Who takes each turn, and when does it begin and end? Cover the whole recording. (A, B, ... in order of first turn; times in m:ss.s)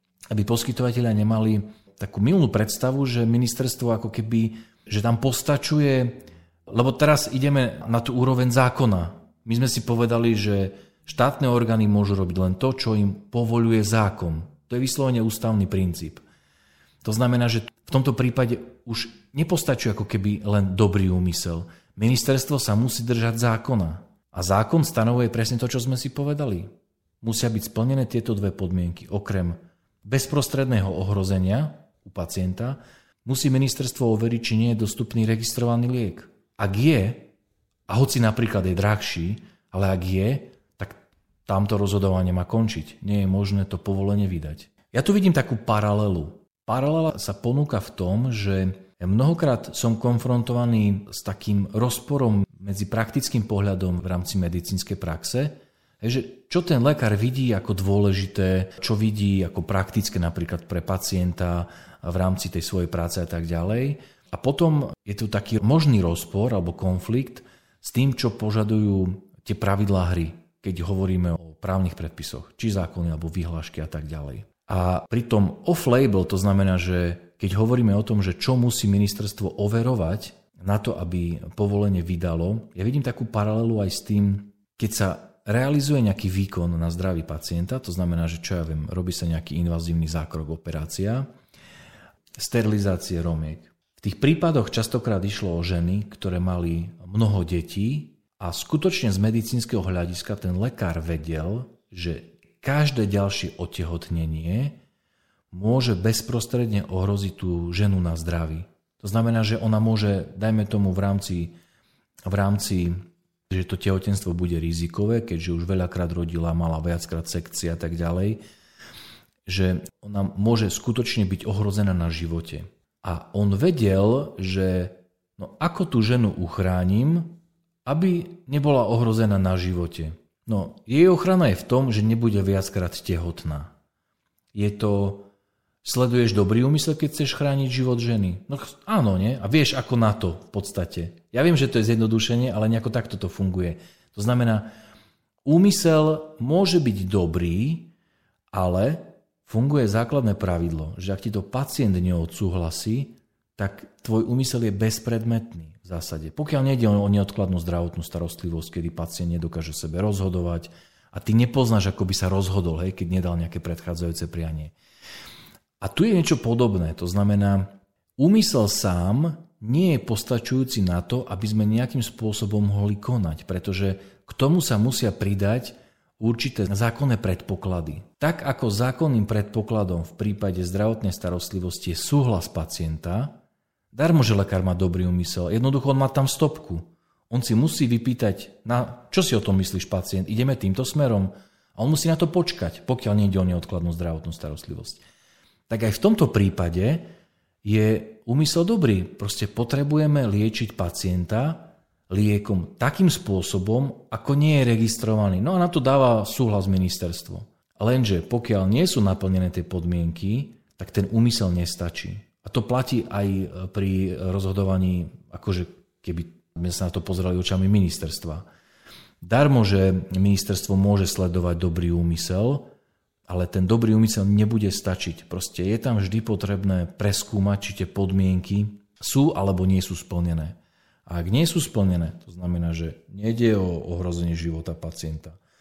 0:00.3-0:16.2 A
0:17.0-0:26.7 A
0:27.2-0:37.3 A
0:37.9-1:31.3 A
1:32.4-1:44.8 A
1:45.5-1:51.5 A
1:52.3-1:53.0 A
1:53.5-1:58.4 A
1:59.4-2:13.7 A
2:14.5-2:15.3 A
2:15.8-2:24.7 A
2:25.4-2:27.9 A
2:28.5-2:44.7 A
2:45.8-3:03.4 A
3:03.9-3:15.0 A
3:15.7-3:17.1 A
3:17.6-3:38.4 A
3:39.2-3:42.7 A
3:43.3-3:55.4 A